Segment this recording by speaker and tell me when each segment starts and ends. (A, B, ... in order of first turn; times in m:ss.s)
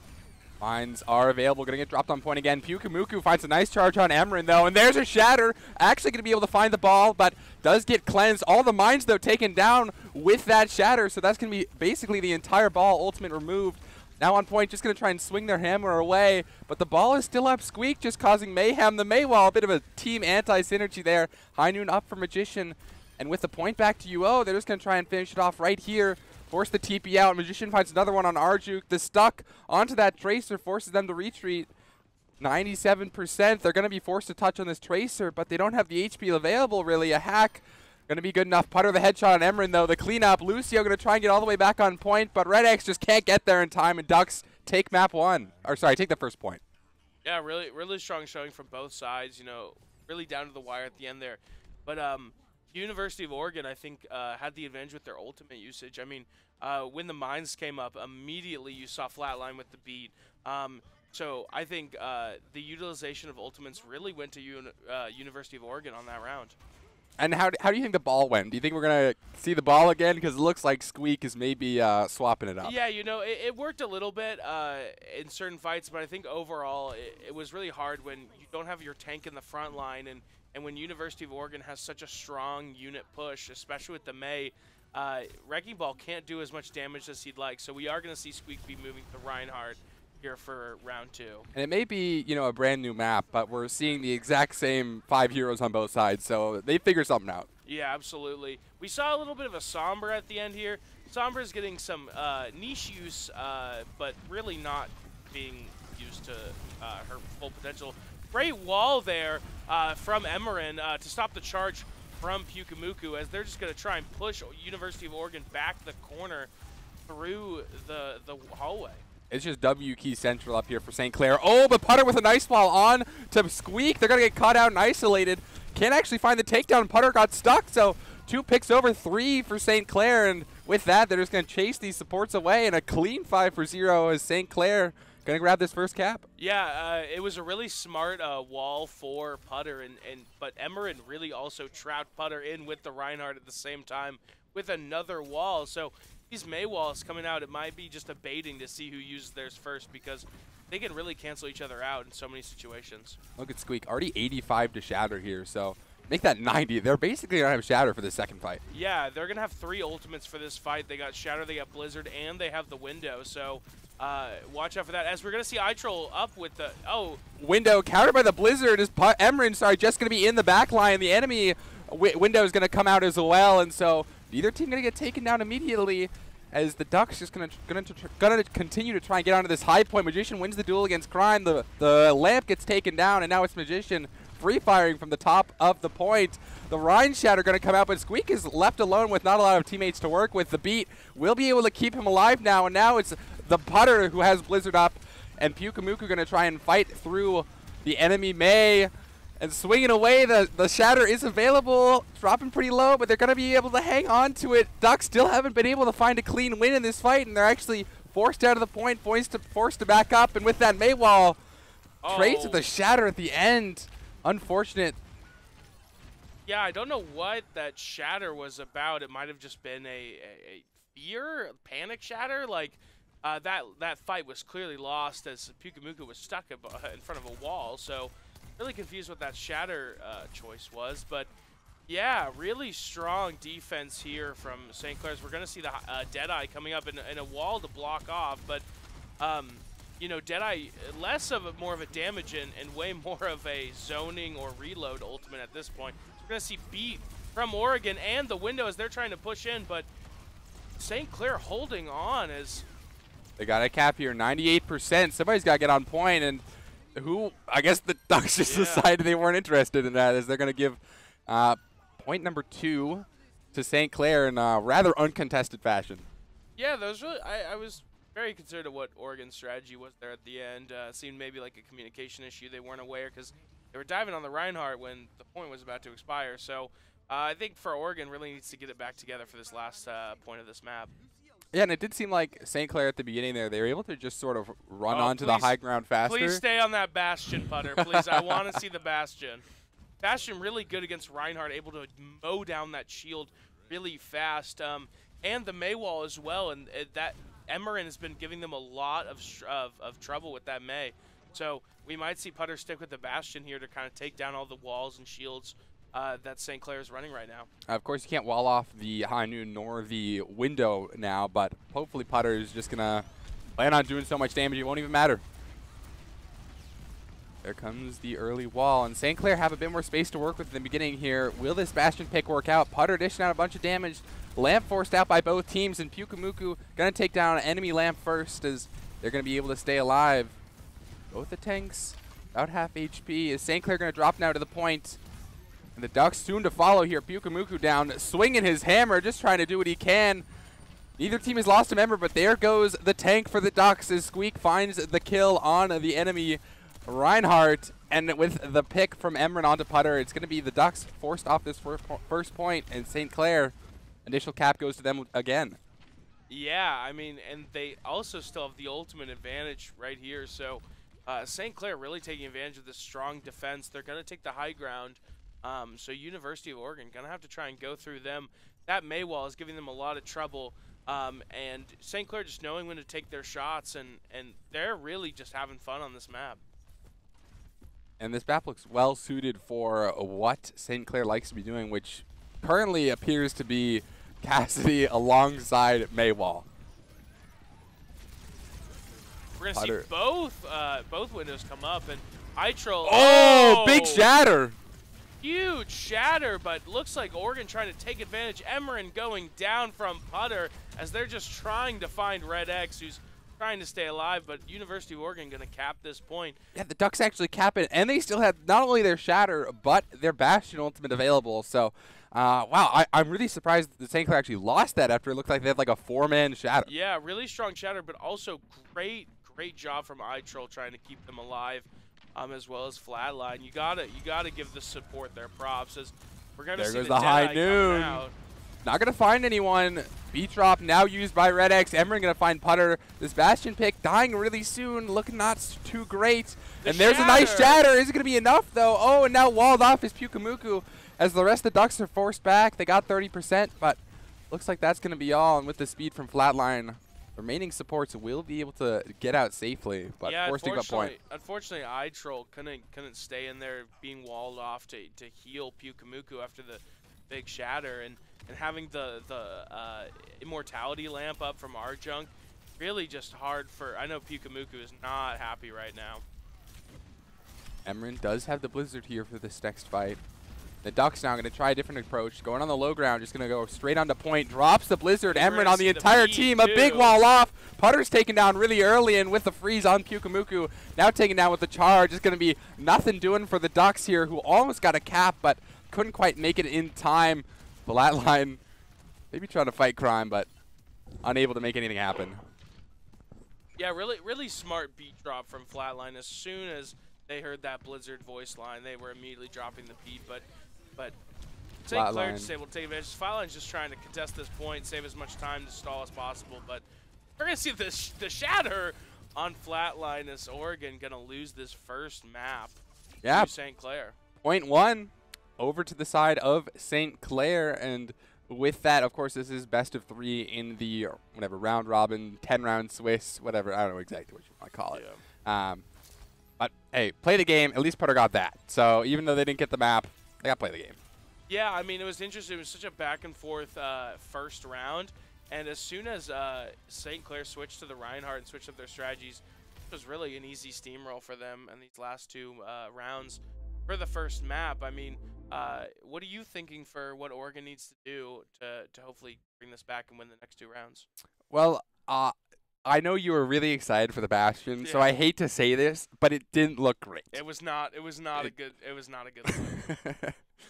0:00.6-0:31.7 A
0:32.4-0:46.6 A
0:47.2-1:06.6 B
1:07.2-1:12.8 A
1:12.6-1:31.5 B
1:31.5-1:37.5 A
1:37.6-1:56.5 B
1:57.1-1:59.0 B
1:59.3-2:16.3 A
2:16.4-2:33.2 B
2:33.4-2:38.6 A
2:38.7-2:47.2 B
2:47.4-3:31.4 A
3:32.0-3:32.6 B
3:32.1-3:35.0 A
3:36.4-3:51.3 B
3:51.9-3:58.6 B
3:59.2-4:09.9 B
4:10.8-4:12.6 B
4:13.4-4:16.4 A
4:16.9-4:26.1 A
4:18.4-4:18.9 B
4:26.6-4:40.9 B
4:41.5-4:46.4 A
4:44.9-4:45.5 B
4:46.0-4:49.4 B
4:47.8-4:48.6 A
4:50.0-5:07.5 B
5:07.7-5:13.0 A
5:13.6-5:15.2 A
5:17.4-5:30.4 A
5:31.1-5:35.0 A
5:35.8-5:40.2 A
5:41.0-5:55.6 A
5:56.3-6:16.4 B
6:18.0-6:26.5 A
6:29.4-6:34.1 B
6:29.5-6:29.8 A
6:32.8-6:34.6 A
6:35.2-6:46.4 B
6:46.5-6:56.7 A
6:56.6-7:08.1 B
7:06.6-7:08.0 A
7:08.6-7:30.9 A
7:16.6-7:17.6 B
7:30.0-7:46.0 B
7:47.6-7:50.0 A
7:50.6-8:08.4 A
7:55.0-7:57.0 B
8:09.1-8:10.3 A
8:11.0-8:12.2 A
8:13.6-8:20.2 B
8:21.6-8:26.6 B
8:21.7-8:22.3 A
8:27.2-8:33.9 B
8:33.0-8:33.3 A
8:34.2-8:45.6 A
8:44.7-8:45.0 B
8:46.4-8:50.8 A
8:51.3-9:10.8 B
9:11.3-9:17.1 A
9:14.6-9:14.9 B
9:17.1-9:19.6 B
9:19.3-9:20.2 A